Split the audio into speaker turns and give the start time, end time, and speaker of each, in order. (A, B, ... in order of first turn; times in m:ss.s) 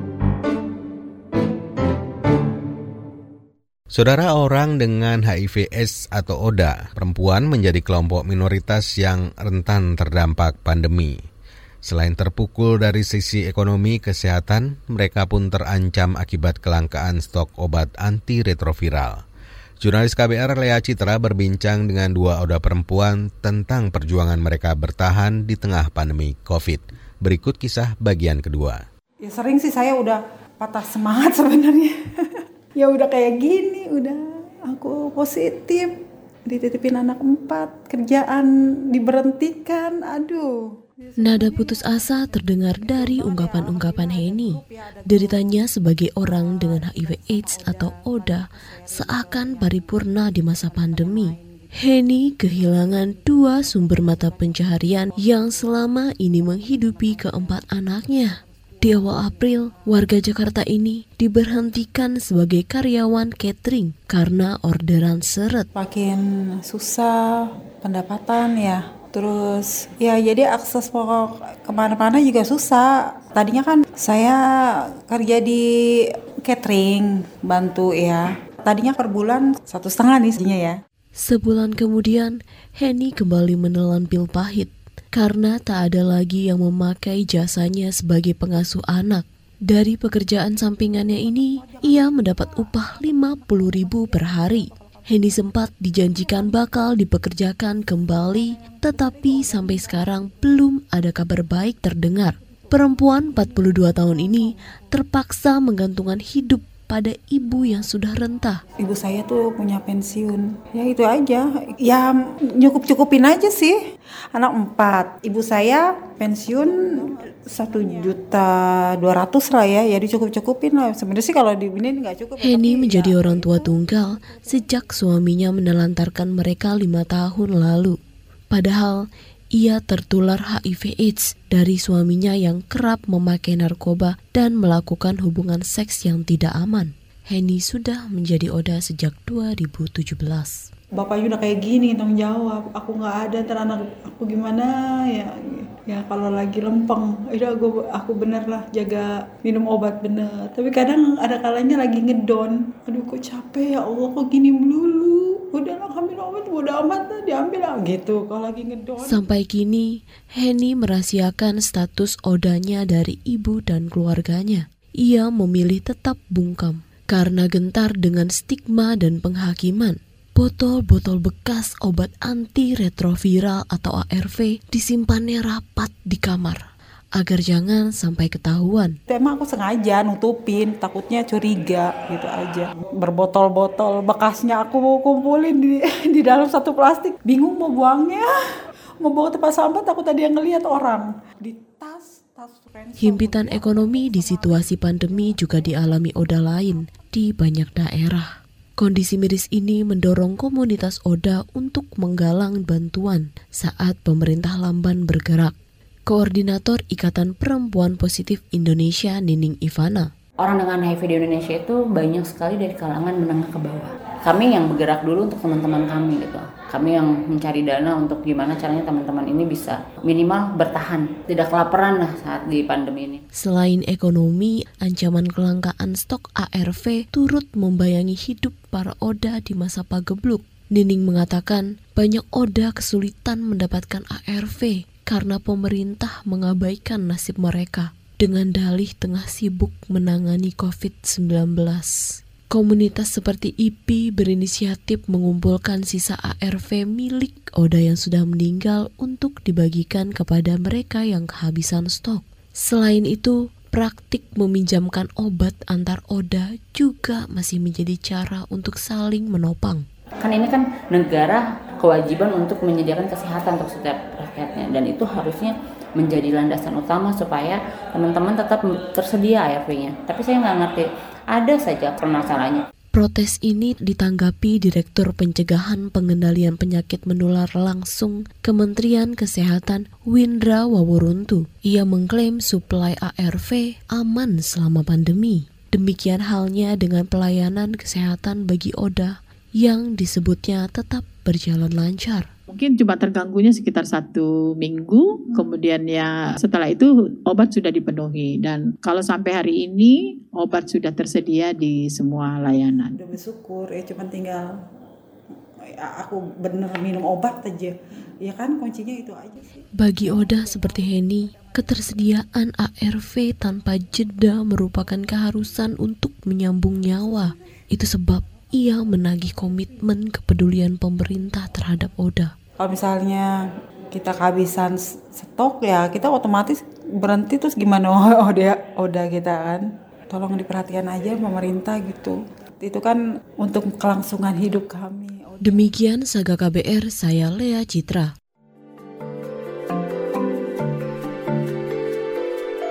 0:03.9-0:11.2 A
0:11.8-0:19.2 A
0:19.8-0:28.8 A
0:29.2-0:31.9 B
0:32.8-0:35.9 B
0:36.5-0:45.6 B
0:41.2-1:05.7 C
0:46.4-0:49.7 B
0:50.7-0:51.4 B
1:05.8-1:14.4 B
1:15.1-1:15.6 B
1:16.4-1:20.8 B
1:21.2-1:48.6 C
1:31.2-1:35.4 B
1:36.0-1:36.6 B
1:38.6-1:40.1 B
1:48.8-1:53.8 B
1:54.3-2:03.9 B
2:02.4-2:08.0 C
2:08.5-2:20.6 C
2:21.0-2:39.2 B
2:39.0-2:56.6 C
2:57.2-2:59.0 C
2:59.1-3:08.3 B
3:09.0-3:15.7 B
3:13.0-3:25.5 C
3:26.1-3:30.1 C
3:30.4-3:43.2 D
3:43.4-4:02.0 C
4:02.5-4:19.8 C
4:20.2-4:32.6 D
4:33.0-4:52.3 C
4:52.6-4:59.9 E
5:00.4-5:03.0 E
5:03.0-5:04.4 B
5:05.8-5:09.5 B
5:09.8-5:22.3 C
5:22.6-5:23.3 B
5:23.9-5:35.7 B
5:35.4-5:38.1 C